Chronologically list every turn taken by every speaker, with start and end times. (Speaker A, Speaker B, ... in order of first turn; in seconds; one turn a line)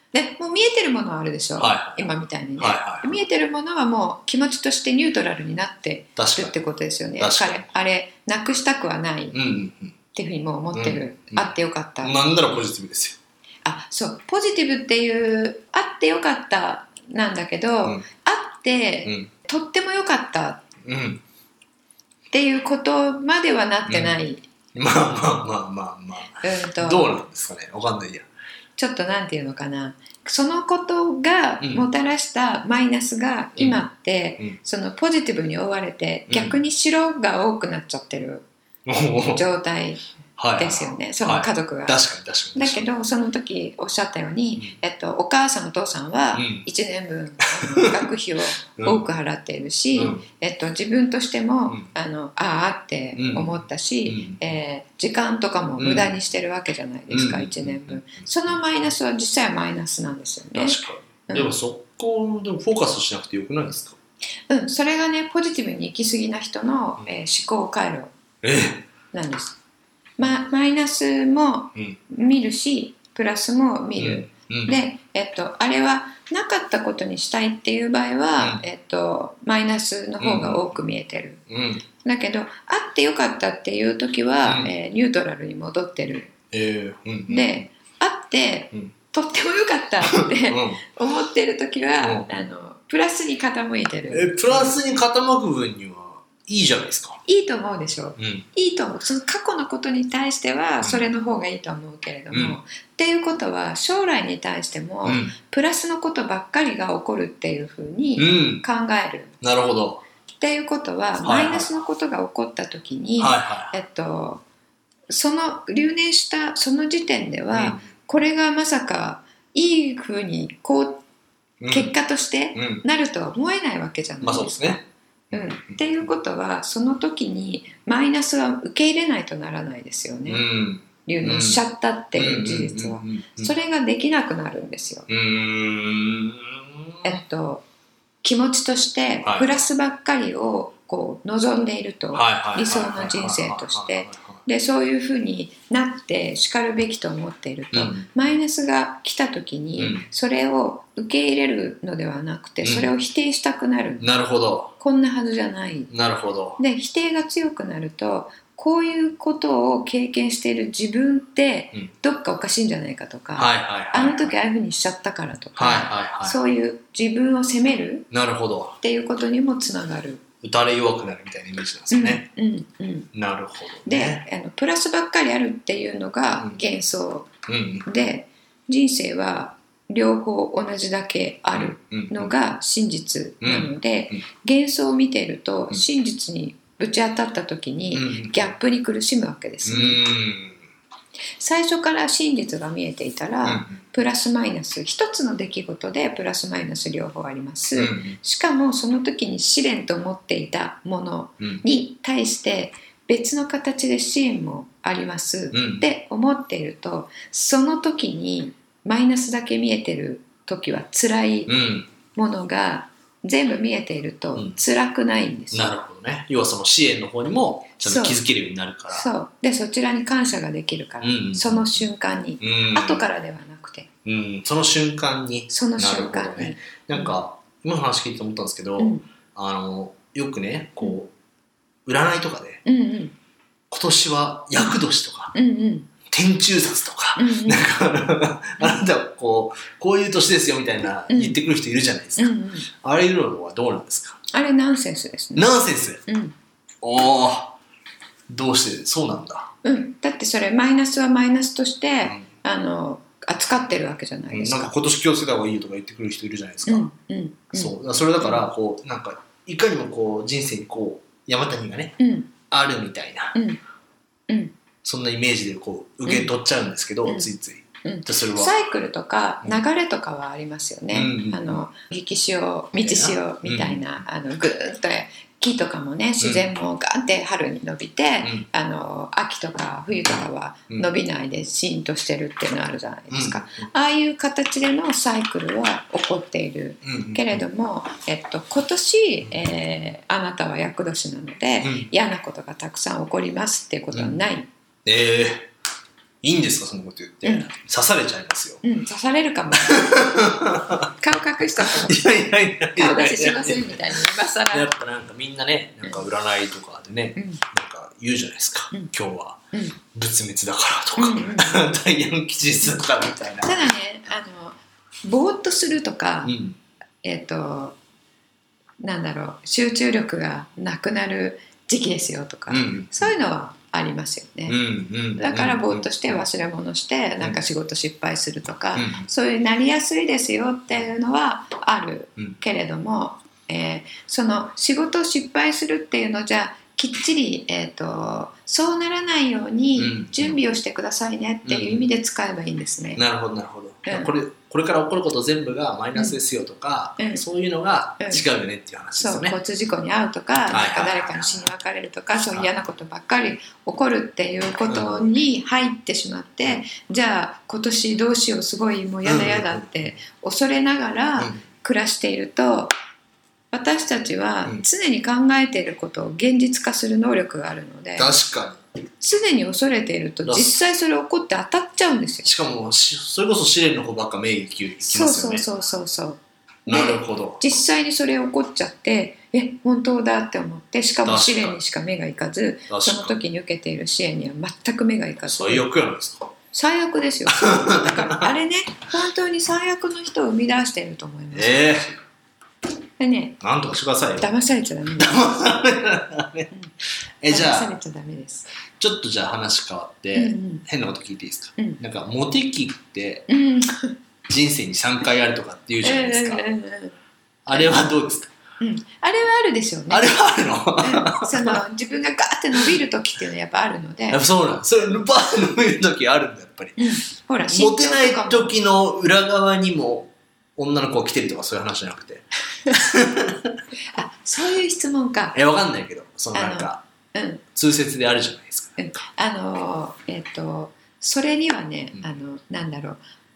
Speaker A: 0.1-9.4
Speaker B: 1.6-3.2
Speaker B: 6.2-6.5
Speaker B: 7.2-7.7
Speaker B: 9.3-9.9
Speaker A: 10.1-12.2
Speaker B: 10.7-13.2
Speaker A: 13.7-20.7
Speaker B: 20.8-21.2
Speaker A: 22.3-24.4
Speaker B: 23.9-24.2
Speaker B: 24.7-28.3
Speaker A: 26.4-27.1
Speaker A: 28.8-38.5
Speaker B: 31.6-31.9
Speaker B: 33.6-33.8
Speaker B: 36.3-36.6
Speaker B: 38.9-39.4
Speaker A: 39.3-40.0
Speaker B: 40.4-42.9
Speaker A: 40.6-42.0
Speaker A: 42.5-61.5
Speaker B: 46.3-46.7
Speaker B: 47.6-48.0
Speaker B: 48.8-49.1
Speaker B: 49.9-50.2
Speaker B: 53.2-54.4
Speaker B: 55.8-56.2
Speaker B: 57.1-58.5
Speaker B: 60.5-64.0
Speaker A: 64.5-68.1
Speaker B: 68.4-68.9
Speaker A: 69.1-69.6
Speaker A: 70.2-81.5
Speaker B: 74.0-74.8
Speaker B: 80.2-80.8
Speaker B: 81.5-81.8
Speaker A: 82.0-86.3
Speaker B: 84.4-84.7
Speaker B: 86.5-87.5
Speaker A: 87.3-94.8
Speaker B: 90.1-90.8
Speaker B: 92.0-92.4
Speaker B: 94.1-97.2
Speaker A: 97.3-109.3
Speaker B: 98.2-98.5
Speaker B: 102.3-102.6
Speaker B: 105.0-105.3
Speaker B: 108.2-108.6
Speaker B: 109.4-110.0
Speaker A: 110.4-114.4
Speaker B: 111.2-111.7
Speaker B: 113.2-113.7
Speaker A: 115.1-121.0
Speaker B: 117.5-117.9
Speaker B: 121.6-121.9
Speaker A: 121.7-124.8
Speaker B: 122.5-122.8
Speaker B: 124.2-125.9
Speaker A: 125.3-130.4
Speaker B: 130.3-131.6
Speaker A: 131.1-135.1
Speaker B: 132.2-133.5
Speaker B: 135.1-137.2
Speaker A: 137.0-137.7
Speaker A: 138.2-154.1
Speaker B: 139.2-139.5
Speaker B: 142.1-144.4
Speaker B: 147.7-148.1
Speaker B: 149.8-150.1
Speaker B: 152.6-152.9
Speaker B: 154.0-154.8
Speaker A: 154.8-155.9
Speaker B: 155.9-156.6
Speaker A: 156.6-168.1
Speaker B: 163.4-164.3
Speaker B: 165.6-166.4
Speaker B: 168.1-168.8
Speaker A: 168.8-170.2
Speaker B: 170.4-172.3
Speaker A: 171.9-173.1
Speaker B: 173.1-174.2
Speaker A: 173.8-177.3
Speaker B: 177.5-177.9
Speaker A: 177.8-190.0
Speaker B: 181.5-182.3
Speaker B: 183.4-184.2
Speaker B: 187.9-188.5
Speaker B: 189.7-190.6
Speaker A: 191.4-211.5
Speaker B: 193.4-193.8
Speaker B: 197.8-198.2
Speaker B: 205.5-205.8
Speaker B: 211.5-211.9
Speaker A: 212.2-215.7
Speaker B: 215.5-219.1
Speaker A: 217.8-218.2
Speaker A: 218.9-223.9
Speaker B: 221.0-221.8
Speaker B: 222.4-223.0
Speaker B: 224.1-231.1
Speaker A: 225.5-227.2
Speaker A: 228.8-229.1
Speaker B: 231.9-232.6
Speaker A: 232.7-233.2
Speaker B: 233.7-235.3
Speaker A: 235.3-235.9
Speaker B: 236.1-244.2
Speaker A: 237.2-237.7
Speaker A: 241.1-241.4
Speaker A: 242.2-242.7
Speaker A: 244.3-246.3
Speaker B: 245.3-246.0
Speaker B: 246.8-247.6
Speaker B: 248.3-249.5
Speaker A: 249.6-254.7
Speaker B: 254.3-256.9
Speaker A: 256.7-258.5
Speaker B: 257.5-263.4
Speaker A: 262.0-262.3
Speaker A: 263.3-263.6
Speaker A: 264.3-264.5
Speaker B: 264.8-268.5
Speaker A: 266.1-266.3
Speaker A: 267.1-267.3
Speaker A: 267.8-294.5
Speaker B: 270.9-271.6
Speaker B: 272.8-274.0
Speaker B: 276.2-276.5
Speaker B: 283.1-283.7
Speaker B: 286.8-287.4
Speaker B: 291.6-291.9
Speaker B: 293.9-294.2
Speaker B: 294.9-295.5
Speaker B: 296.2-298.6
Speaker A: 297.2-297.5
Speaker A: 298.6-300.2
Speaker B: 299.6-300.9
Speaker A: 301.0-302.1
Speaker B: 301.6-313.6
Speaker A: 302.8-304.7
Speaker A: 307.2-307.4
Speaker A: 309.5-309.8
Speaker A: 311.0-311.7
Speaker A: 313.4-316.4
Speaker B: 316.2-316.6
Speaker A: 317.0-317.8
Speaker A: 318.8-324.6
Speaker B: 322.5-323.1
Speaker B: 324.5-326.2
Speaker A: 325.2-343.0
Speaker B: 328.8-329.1
Speaker B: 339.8-340.4
Speaker B: 341.4-341.9
Speaker B: 343.0-349.4
Speaker A: 343.9-344.1
Speaker A: 347.0-347.2
Speaker A: 349.0-362.7
Speaker B: 350.5-351.5
Speaker B: 354.7-355.1
Speaker B: 359.0-359.7
Speaker B: 361.2-361.4
Speaker A: 363.5-368.1
Speaker B: 368.0-368.6
Speaker A: 369.0-372.3
Speaker B: 370.2-370.6
Speaker B: 372.2-375.5
Speaker A: 374.9-385.7
Speaker B: 376.7-377.4
Speaker B: 381.1-381.6
Speaker B: 382.7-383.2
Speaker B: 385.3-386.3
Speaker A: 386.5-391.7
Speaker B: 387.3-388.3
Speaker B: 391.3-391.9
Speaker A: 393.0-393.4
Speaker B: 393.4-394.3
Speaker A: 394.2-395.2
Speaker B: 395.0-396.5
Speaker B: 397.2-397.8
Speaker A: 397.3-398.5
Speaker B: 398.8-403.3
Speaker A: 400.1-400.6
Speaker A: 403.3-404.0
Speaker B: 404.3-406.4
Speaker A: 405.8-406.9
Speaker B: 407.4-408.3
Speaker A: 407.5-407.9
Speaker A: 408.6-410.1
Speaker B: 409.9-411.6
Speaker A: 410.8-414.2
Speaker B: 414.1-416.8
Speaker A: 416.8-418.5
Speaker B: 417.5-423.6
Speaker A: 423.9-425.4
Speaker B: 425.3-426.8
Speaker A: 426.3-427.4
Speaker B: 427.5-428.8
Speaker A: 428.8-433.0